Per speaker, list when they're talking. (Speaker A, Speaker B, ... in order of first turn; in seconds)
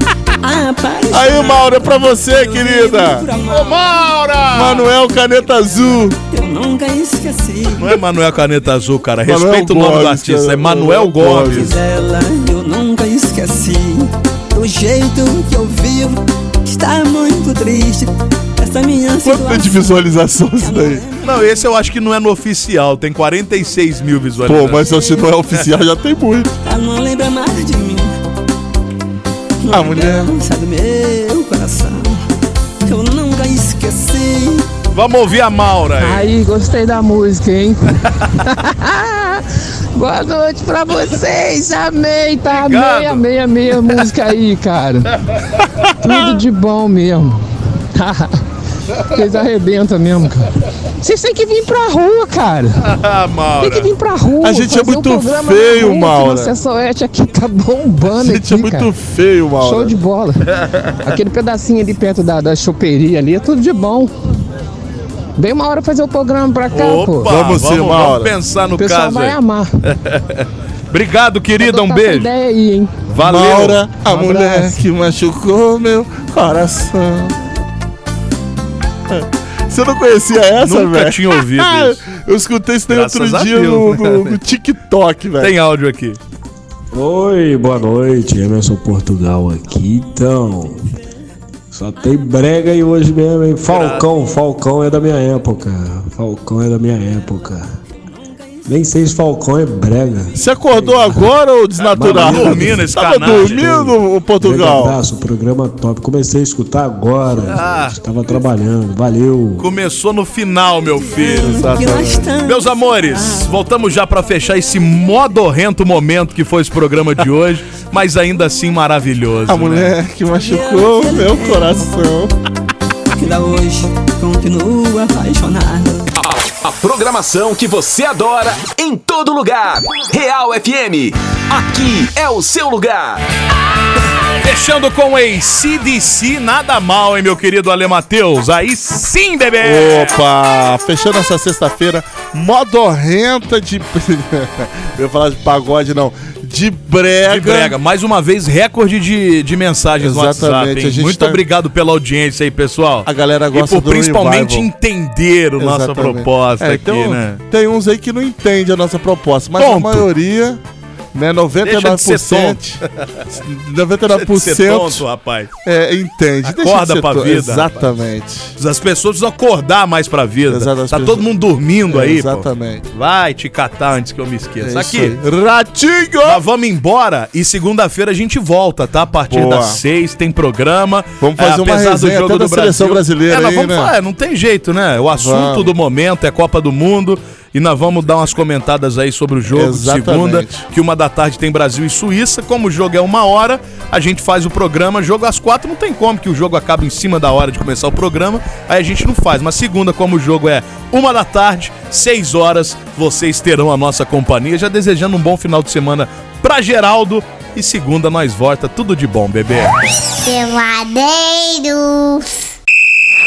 Speaker A: 0.4-3.8, 6.3-7.9, 11.6-21.4, 26.7-28.1, 29.6-32.2, 32.8-34.7, 111.0-113.5, 120.3-121.9, 123.2-126.1
Speaker B: 1.1-3.3, 4.5-6.2, 9.3-11.7, 19.2-21.0, 24.4-26.6, 29.7-30.3, 54.4-56.5, 58.1-60.0, 67.3-68.4, 73.2-77.4, 79.1-85.5, 100.3-105.0, 111.2-112.3, 119.5-122.3, 139.6-147.8, 150.0-151.4, 153.1-154.7, 155.6-160.6, 161.1-162.8, 163.4-165.1, 165.7-168.6, 170.5-171.3, 171.9-172.9, 174.6-176.4, 179.3-179.8, 181.2-183.9, 185.2-185.7, 189.5-190.6
Speaker C: 3.5-4.9, 7.8-11.7, 21.2-24.9, 34.9-36.3, 42.5-43.3, 52.8-53.9, 60.5-61.1, 66.7-72.3, 73.1-73.9, 80.6-82.0, 82.9-84.4, 85.4-86.2, 93.7-94.1, 101.8-103.9, 107.5-108.0, 109.6-111.7, 112.4-120.0, 134.4-140.2, 147.3-157.4, 159.6-160.1, 161.6-163.1, 164.1-165.5, 166.4-167.8, 168.6-175.2, 176.2-209.8
Speaker D: 36.0-37.8, 38.4-45.1, 46.0-47.4, 48.0-48.4, 49.1-50.5, 51.0-52.8, 53.6-58.9, 59.6-60.5, 61.0-64.1, 65.4-67.3, 68.8-69.7, 71.6-73.0, 74.2-74.8
Speaker E: 86.9-90.8, 91.7-97.7, 98.7-101.3, 101.9-102.8, 103.3-109.7
Speaker F: 126.2-133.2
Speaker G: 210.2-212.5